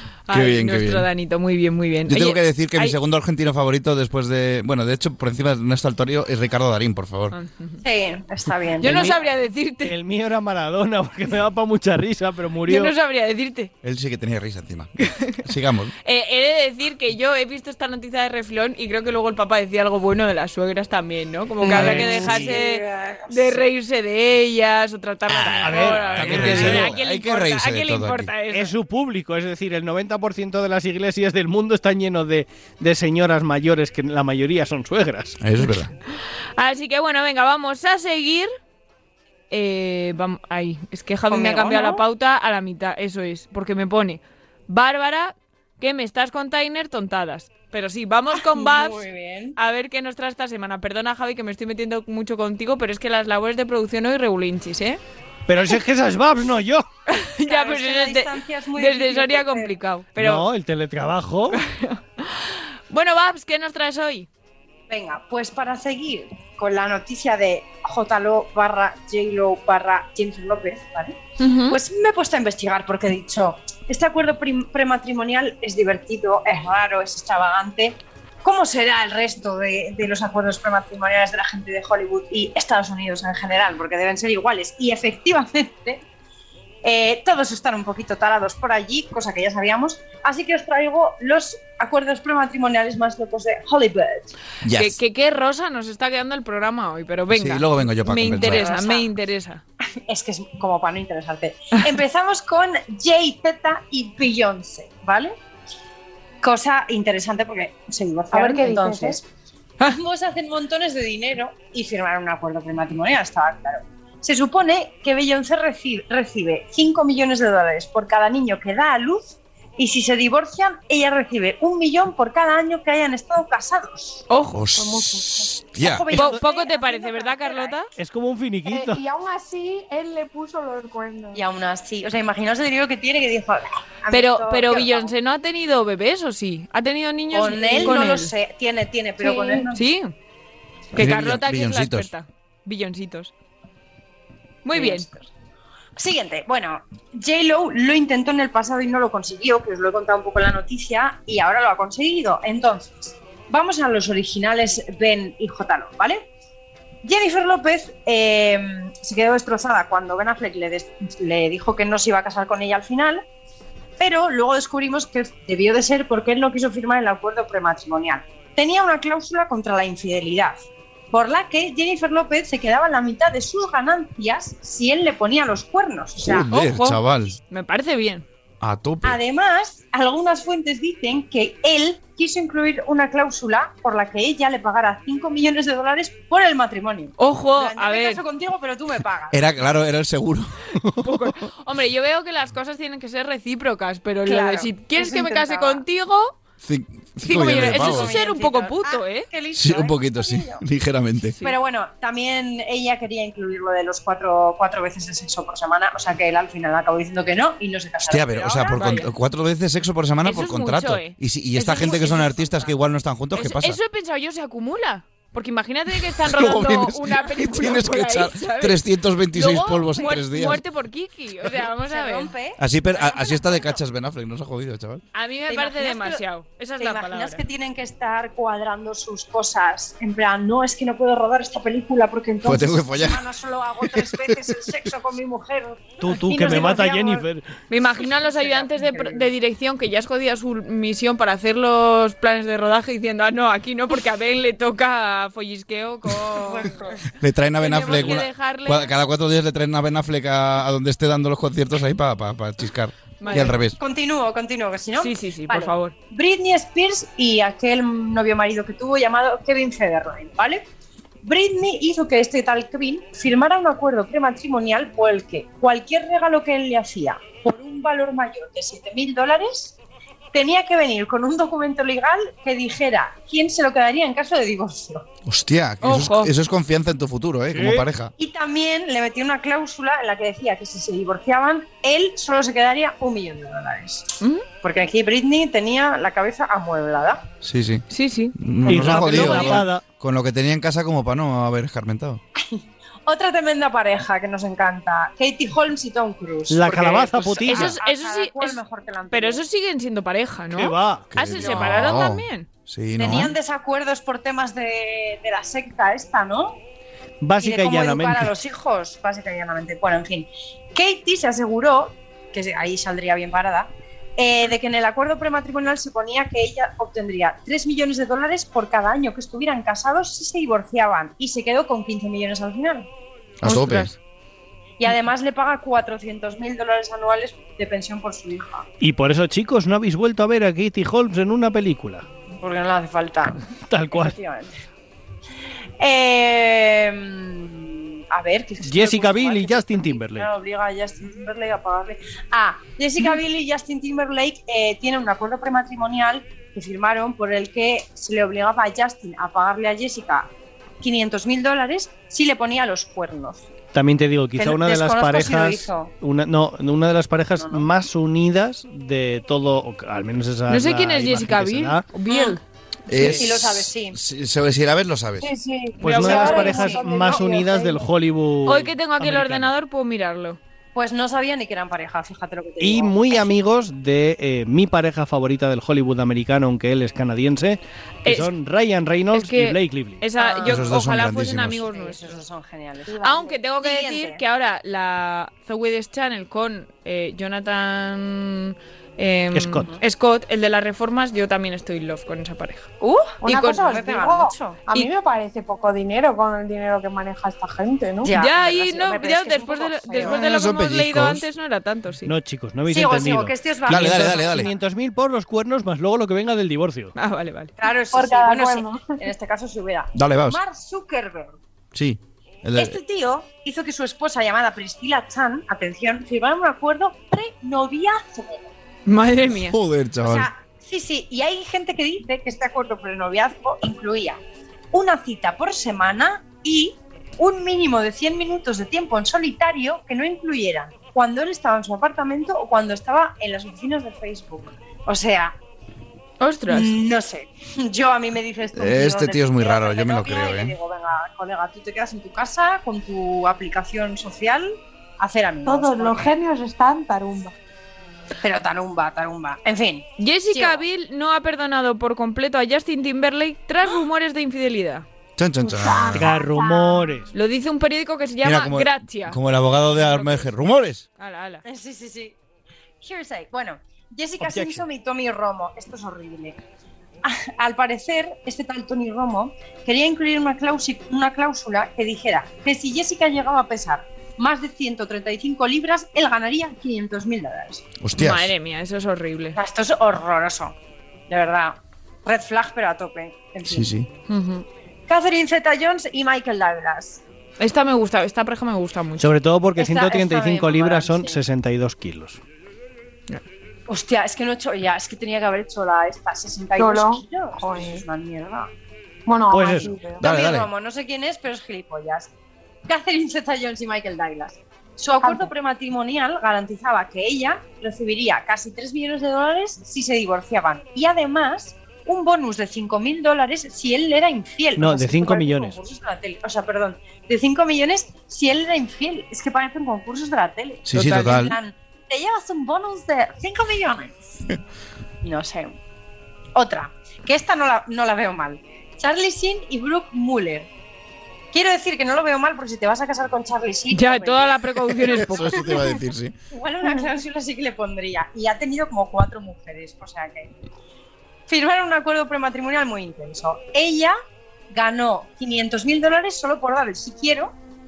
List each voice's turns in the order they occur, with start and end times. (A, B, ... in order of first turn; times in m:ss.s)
0:00.3-0:03.0 A
0:00.3-0:01.1 B
0:02.1-0:07.3 B
0:07.3-0:07.8 A
0:07.8-0:09.2 C
0:08.8-0:09.9 A
0:08.8-0:09.2 D
0:09.8-0:12.9 D
0:12.6-0:13.7 A
0:13.8-0:15.9 B
0:15.0-0:15.4 A
0:16.0-0:28.7 A
0:21.6-0:23.6 C
0:21.7-0:22.6 D
0:25.3-0:28.3 B
0:25.6-0:27.0 D
0:28.5-0:35.4 D
0:35.4-0:35.9 B
0:36.6-0:38.5 A
0:39.5-0:49.0 A
0:41.3-0:42.0 C
0:48.3-0:49.5 C
0:49.6-0:55.0 A
0:55.5-0:56.8 D
0:57.1-1:00.5 A
0:57.4-0:59.7 C
1:00.2-1:01.6 D
1:01.5-1:04.3 A
1:04.9-1:26.0 C
1:11.4-1:11.8 A
1:26.8-1:34.3 C
1:34.6-1:35.0 B
1:34.7-1:39.6 A
1:37.3-1:38.7 B
1:38.4-1:39.1 C
1:40.0-1:45.3 C
1:46.4-1:49.2 C
1:48.3-1:49.2 E
1:49.8-2:04.2 C
2:04.3-2:04.6 A
2:04.5-2:06.1 B
2:05.0-2:07.8 C
2:06.1-2:06.4 D
2:06.1-2:07.9 A
2:08.0-2:09.0 D
2:08.6-2:11.4 E
2:11.3-2:15.1 C
2:14.1-2:18.3 A
2:17.3-2:19.8 C
2:17.7-2:18.1 E
2:19.2-2:19.7 E
2:19.7-2:20.1 A
2:20.9-2:22.1 B
2:20.9-2:23.3 A
2:24.6-2:25.1 A
2:24.7-2:25.1 C
2:26.0-2:36.2 C
2:37.0-2:43.2 C
2:44.0-2:56.5 C
2:56.2-2:57.4 B
2:56.5-2:58.2 A
2:58.6-2:59.2 B
2:59.0-3:09.4 C
3:07.2-3:08.2 A
3:09.3-3:11.2 B
3:11.0-3:16.3 A
3:14.2-3:15.8 C
3:16.6-3:18.1 B
3:17.2-3:19.3 A
3:17.3-3:20.6 C
3:19.5-3:21.4 B
3:21.4-3:29.0 C
3:28.0-3:33.8 B
3:28.7-3:29.1 A
3:30.2-3:32.3 A
3:31.8-3:32.7 C
3:33.3-3:42.3 A
3:36.1-3:40.6 B
3:41.9-3:43.8 C
3:42.6-3:45.0 B
3:45.1-3:47.4 A
3:45.5-3:46.2 C
3:46.8-3:57.2 C
3:52.4-3:53.2 B
3:53.8-3:54.2 B
3:56.0-3:57.5 D
3:57.7-4:06.7 A
3:57.8-3:59.3 C
4:06.2-4:07.0 C
4:07.1-4:13.8 B
4:07.6-4:08.9 A
4:13.2-4:13.6 A
4:13.3-4:20.6 C
4:15.0-4:15.9 A
4:21.2-4:29.8 C
4:30.3-4:35.1 C
4:35.2-4:38.1 B
4:35.8-4:36.3 A
4:37.5-4:37.8 D
4:38.2-4:47.2 C
4:47.4-4:52.2 B
4:47.9-4:49.7 A
4:48.6-4:49.8 D
4:52.4-4:59.4 C
4:56.5-4:57.8 D
4:57.4-4:58.6 A
4:59.1-5:02.5 A
5:00.5-5:01.0 D
5:01.1-5:03.3 B
5:01.4-5:01.8 C
5:03.0-5:06.6 C
5:07.2-5:08.3 D
5:07.4-5:22.9 C
5:23.4-5:23.9 B
5:23.4-5:23.9 A
5:24.8-5:28.6 C
5:28.8-5:32.0 D
5:32.4-5:33.4 C
5:33.7-5:34.1 D
5:33.9-5:34.5 C
5:35.8-5:53.5 C
5:38.6-5:40.3 D
5:53.7-6:01.8 D
5:54.4-5:55.9 C
5:57.4-5:57.6 C
6:00.5-6:02.4 A
6:02.1-6:02.4 C
6:02.9-6:05.3 B
6:02.9-6:04.0 C
6:05.2-6:07.8 E
6:05.8-6:09.5 D
6:05.8-6:06.7 A
6:05.9-6:07.3 C
6:08.4-6:10.4 A
6:10.7-6:13.4 C
6:12.6-6:20.0 D
6:18.0-6:18.3 A
6:19.1-6:22.1 A
6:20.2-6:20.8 C
6:20.4-6:21.6 B
6:21.7-6:23.0 C
6:22.9-6:23.4 E
6:23.0-6:33.7 A
6:23.6-6:24.2 C
6:29.3-6:29.7 D
6:33.2-6:38.1 E
6:33.6-6:34.9 C
6:38.0-6:40.2 C
6:38.1-6:42.1 A
6:40.0-6:41.2 B
6:42.0-6:46.9 D
6:42.7-6:44.5 C
6:43.7-6:44.5 B
6:47.0-6:47.5 A
6:47.6-6:51.4 C
6:47.9-6:49.0 E
6:49.9-6:50.4 B
6:51.7-6:52.8 B
6:52.5-6:58.5 C
6:58.8-6:59.6 A
6:59.3-7:00.3 B
7:00.0-7:04.2 C
7:04.7-7:15.4 C
7:16.2-7:16.8 A
7:16.5-7:26.2 C
7:18.5-7:20.6 B
7:25.4-7:27.3 E
7:28.2-7:30.6 C
7:30.0-7:34.8 A
7:35.2-7:36.2 B
7:35.4-7:36.9 E
7:35.9-7:37.1 D
7:37.1-7:39.2 A
7:38.2-7:40.8 B
7:39.7-7:40.3 A
7:41.0-7:41.4 A
7:41.4-7:42.2 C
7:42.8-7:46.4 C
7:44.2-7:44.6 D
7:47.0-7:57.6 C
7:57.8-7:58.3 B
7:58.0-7:59.4 A
7:59.4-8:00.5 C
8:01.1-8:03.7 C
8:03.4-8:03.9 B
8:04.1-8:04.4 A
8:04.9-8:07.0 C
8:07.4-8:09.1 A
8:09.0-8:12.2 D
8:09.6-8:11.2 C
8:13.7-8:18.5 C
8:16.6-8:17.8 E
8:19.0-8:20.0 E
8:19.3-8:19.7 D
8:19.6-8:22.1 C
8:20.0-8:20.5 B
8:22.7-8:43.9 C
8:25.0-8:25.3 E
8:34.6-8:35.6 D
8:40.6-8:41.4 B
8:45.0-8:45.5 C
8:46.3-8:50.5 C
8:51.3-8:54.4 C
8:53.7-8:55.6 A
8:54.8-8:56.1 B
8:56.3-9:00.3 C
9:01.3-9:04.0 C
9:04.5-9:07.3 C